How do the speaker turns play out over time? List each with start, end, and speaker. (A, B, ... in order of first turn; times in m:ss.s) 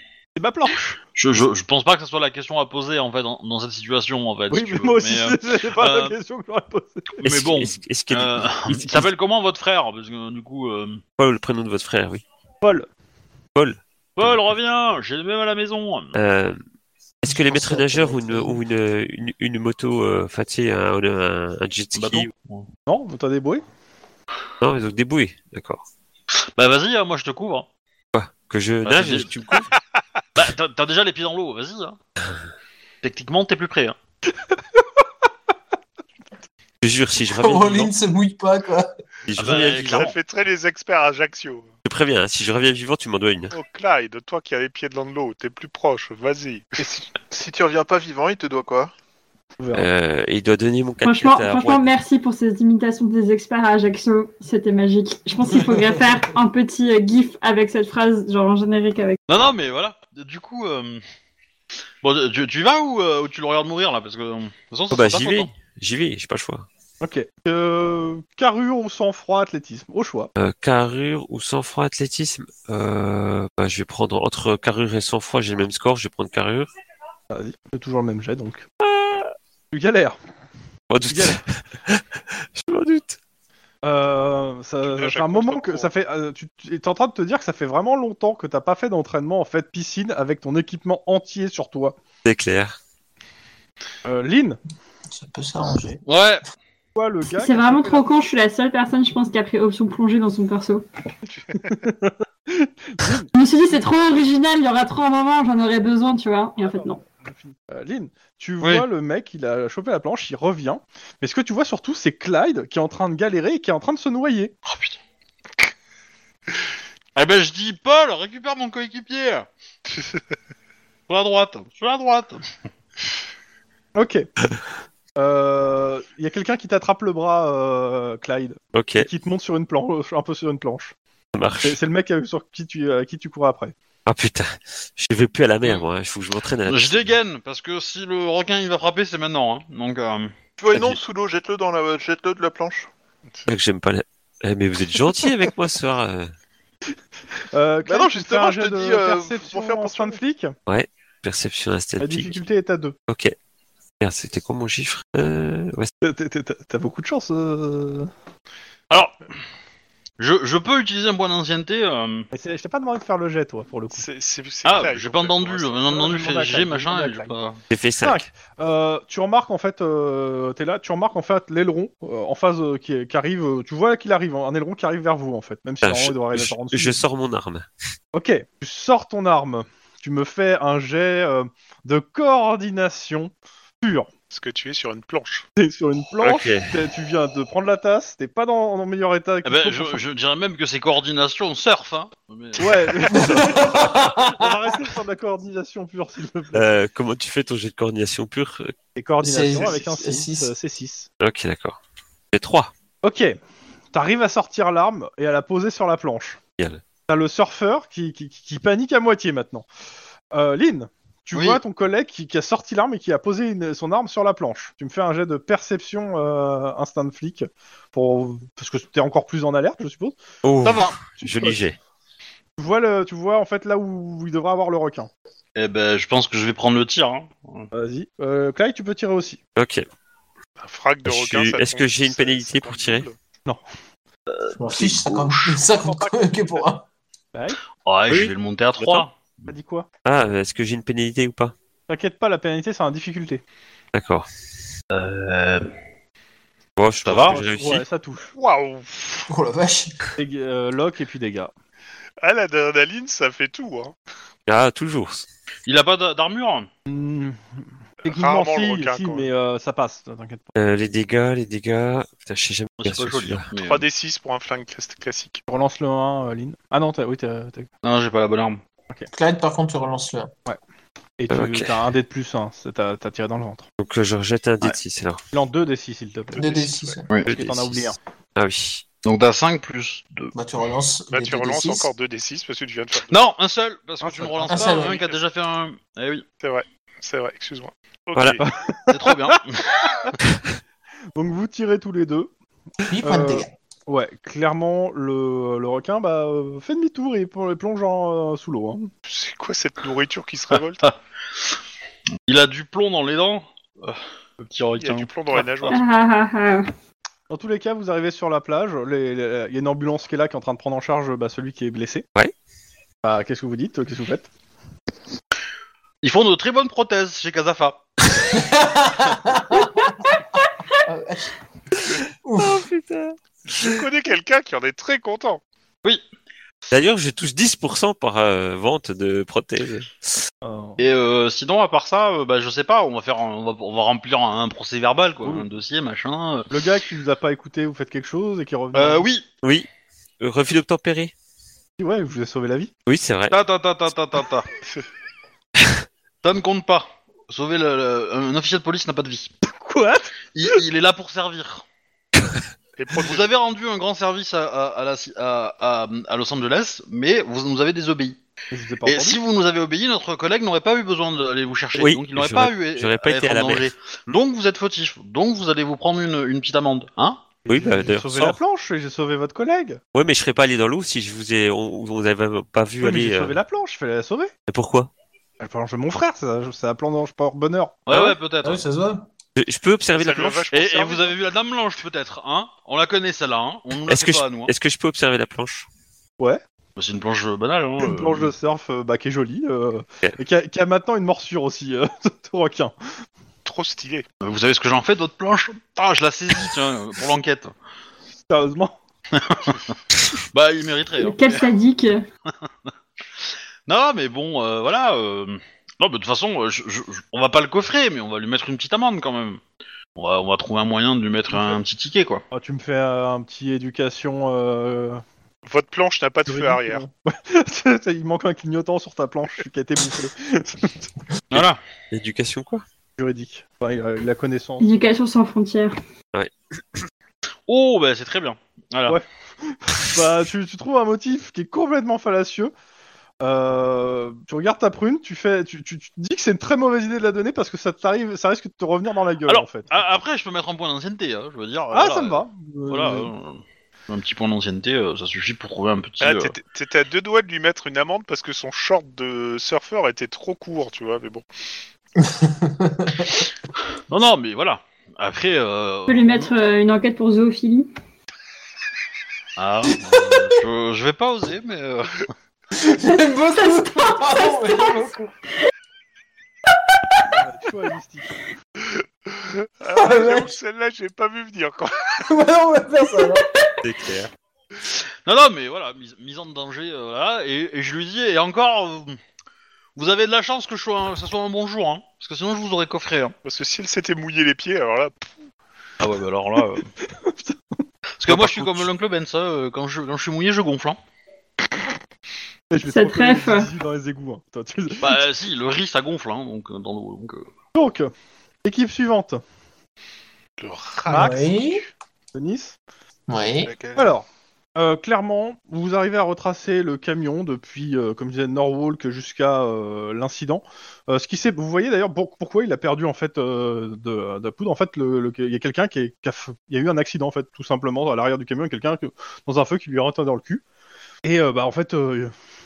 0:00.4-0:01.0 A
0:01.2-0:06.2 B
0:04.5-0:07.2 A
0:07.2-0:09.1 C
0:07.2-0:11.0 B
0:11.2-0:12.2 C
0:12.6-0:12.9 A
0:13.5-0:14.5 C
0:14.2-0:16.1 B
0:16.1-0:16.6 C
0:17.2-0:22.3 C
0:17.2-0:18.6 D
0:21.9-0:22.7 B
0:22.9-0:23.6 A
0:24.6-0:25.8 C
0:26.6-0:27.7 B
0:28.1-0:29.7 C
0:28.8-0:29.4 B
0:30.3-0:32.0 B
0:33.0-0:34.0 B
0:36.8-0:37.9 C
0:37.3-0:38.9 D
0:39.3-0:40.1 C
0:39.4-0:40.1 B
0:39.9-0:41.7 E
0:41.8-0:43.5 C
0:43.5-0:46.8 E
0:46.8-0:48.9 F
0:49.6-0:49.9 A
0:49.7-0:51.9 C
0:51.0-0:59.2 G
0:55.5-0:56.0 D
0:59.3-1:01.0 B
1:02.0-1:05.5 B
1:04.9-1:06.7 C
1:07.0-1:10.3 A
1:10.4-1:16.7 C
1:17.3-1:18.7 A
1:18.8-1:19.3 C
1:19.7-1:20.2 A
1:20.9-1:22.0 C
1:21.1-1:21.4 A
1:22.5-1:23.2 C
1:23.8-1:32.0 A
1:24.8-1:25.9 E
1:32.2-1:32.8 C
1:34.0-1:34.6 A
1:35.1-1:36.0 D
1:36.0-1:36.4 B
1:37.0-1:38.0 A
1:37.4-1:40.8 G
1:41.6-1:43.3 A
1:43.3-1:47.0 G
1:46.6-1:54.5 A
1:48.6-1:48.8 B
1:54.7-1:55.0 B
1:57.2-1:59.4 B
2:01.1-2:02.4 B
2:03.9-2:04.3 A
2:05.2-2:10.9 A
2:08.7-2:09.1 C
2:11.3-2:11.8 C
2:11.6-2:13.7 A
2:14.0-2:17.1 C
2:16.6-2:20.3 B
2:20.6-2:22.9 F
2:23.5-2:26.3 C
2:27.5-2:30.5 A
2:27.8-2:30.2 F
2:30.7-2:32.4 C
2:32.0-2:33.0 A
2:33.1-2:33.4 C
2:34.0-2:35.9 C
2:36.0-2:38.1 A
2:38.9-2:39.2 B
2:40.2-2:42.3 B
2:42.3-2:44.0 A
2:43.9-2:46.1 E
2:44.6-2:47.6 B
2:45.9-2:47.3 A
2:47.7-2:48.2 C
2:48.0-2:57.0 A
2:55.8-2:57.7 C
2:58.1-3:04.1 A
3:04.3-3:05.4 E
3:05.6-3:10.0 A
3:06.2-3:06.8 C
3:09.4-3:13.4 B
3:12.6-3:16.6 A
3:13.1-3:14.7 D
3:16.5-3:18.7 C
3:18.9-3:21.1 A
3:19.2-3:20.5 D
3:21.2-3:21.8 C
3:22.3-3:22.7 C
3:23.0-3:23.4 A
3:23.9-3:26.4 A
3:27.1-3:29.7 A
3:30.3-3:40.2 A
3:31.3-3:31.6 B
3:40.4-3:41.8 C
3:40.6-3:41.0 B
3:41.2-3:41.6 A
3:42.6-3:45.1 A
3:45.6-3:47.7 B
3:47.7-3:49.4 A
3:49.6-3:49.8 C
3:50.6-3:53.2 E
3:51.0-3:53.1 C
3:54.3-3:55.6 B
3:54.5-3:56.8 D
3:55.7-3:56.6 A
3:57.3-3:57.6 A
3:57.8-3:59.1 B
3:59.4-3:59.9 A
4:00.0-4:01.5 C
4:01.9-4:03.4 A
4:03.9-4:04.3 C
4:04.9-4:05.7 B
4:06.8-4:07.8 C
4:07.0-4:07.4 B
4:07.1-4:08.3 A
4:08.3-4:09.3 E
4:09.3-4:10.0 D
4:10.2-4:11.5 A
4:12.2-4:13.9 E
4:14.5-4:15.2 C
4:15.6-4:16.7 B
4:16.9-4:17.4 A
4:18.0-4:19.3 E
4:18.0-4:20.5 A
4:20.5-4:23.5 C
4:22.8-4:23.8 B
4:23.5-4:25.4 E
4:25.5-4:27.7 A
4:27.8-4:28.6 B
4:29.1-4:30.3 D
4:31.2-4:33.7 A
4:31.3-4:31.8 C
4:33.8-4:35.2 C
4:35.3-4:38.0 A
4:36.3-4:36.7 E
4:36.4-4:37.0 D
4:37.2-4:38.8 C
4:39.0-4:40.3 B
4:40.3-4:41.9 D
4:41.1-4:43.2 E
4:43.1-4:46.2 B
4:44.0-4:44.8 A
4:44.5-4:45.0 D
4:44.7-4:45.2 E
4:46.4-4:48.4 E
4:48.4-4:49.4 A
4:48.9-4:49.8 B
4:51.1-4:52.3 A
4:52.8-4:53.5 D
4:53.0-4:58.9 A
4:59.0-5:00.9 E
5:02.3-5:05.8 B
5:04.8-5:05.8 E
5:05.7-5:06.7 G
5:07.3-5:12.0 A
5:13.0-5:14.3 A
5:16.0-5:17.8 B
5:18.3-5:19.9 D
5:20.8-5:21.3 D
5:22.2-5:22.6 D
5:22.4-5:23.2 C
5:23.5-5:25.4 E
5:26.7-5:30.0 C
5:30.4-5:30.8 A
5:30.8-5:36.5 B
5:36.5-5:39.1 A
5:38.7-5:39.2 B
5:39.4-5:39.7 C
5:40.2-5:41.1 C
5:41.8-5:42.7 A
5:42.8-5:43.3 C
5:43.3-5:44.5 B
5:46.2-5:49.3 B
5:49.4-5:50.5 A
5:50.3-5:51.6 B
5:52.8-5:53.3 E
5:53.0-5:58.2 B
5:58.5-5:59.2 A
5:58.8-6:07.2 B
6:01.8-6:03.7 C
6:07.5-6:08.4 C
6:07.5-6:09.8 A
6:09.9-6:13.4 C
6:12.8-6:14.3 A
6:14.5-6:14.9 C
6:15.4-6:17.8 A
6:17.9-6:18.6 B
6:18.4-6:19.1 D
6:19.4-6:20.5 C
6:19.9-6:21.1 E
6:20.5-6:24.5 B
6:23.8-6:25.7 C
6:26.8-6:28.3 B
6:27.8-6:32.7 A
6:33.4-6:34.0 E
6:34.2-6:37.5 B
6:38.3-6:38.7 A
6:39.1-6:39.6 B
6:40.3-6:41.4 B
6:41.0-6:42.0 G
6:43.7-6:49.4 B
6:50.0-6:52.2 B
6:52.3-6:55.0 A
6:55.4-6:56.9 E
6:56.3-7:00.9 A
7:01.3-7:01.6 B
7:01.3-7:02.6 C
7:03.0-7:04.7 A
7:04.6-7:05.8 G
7:07.5-7:09.0 B
7:08.9-7:12.5 A
7:13.2-7:19.7 A
7:19.2-7:26.4 B
7:21.7-7:23.1 A
7:26.0-7:31.2 E
7:32.0-7:33.1 D
7:33.9-7:36.3 B
7:35.9-7:37.7 G
7:39.4-7:42.1 B
7:42.5-7:45.1 D
7:43.5-7:44.7 G
7:47.1-7:48.2 A
7:49.1-7:51.9 E
7:49.7-7:50.4 D
7:52.0-7:53.2 D
7:53.6-7:54.1 C
7:55.0-7:59.0 B
7:59.8-8:03.1 B
8:03.2-8:05.3 E
8:05.8-8:06.7 B
8:06.8-8:08.6 A
8:08.0-8:10.8 B
8:12.5-8:15.0 A
8:12.7-8:13.5 G
8:14.8-8:17.3 B
8:17.5-8:17.9 A
8:18.4-8:19.2 A
8:20.4-8:21.7 E
8:20.9-8:21.6 D
8:20.9-8:21.3 A
8:22.1-8:22.6 A
8:23.1-8:23.5 D
8:23.4-8:23.9 F
8:23.8-8:40.4 A
8:41.0-8:42.1 A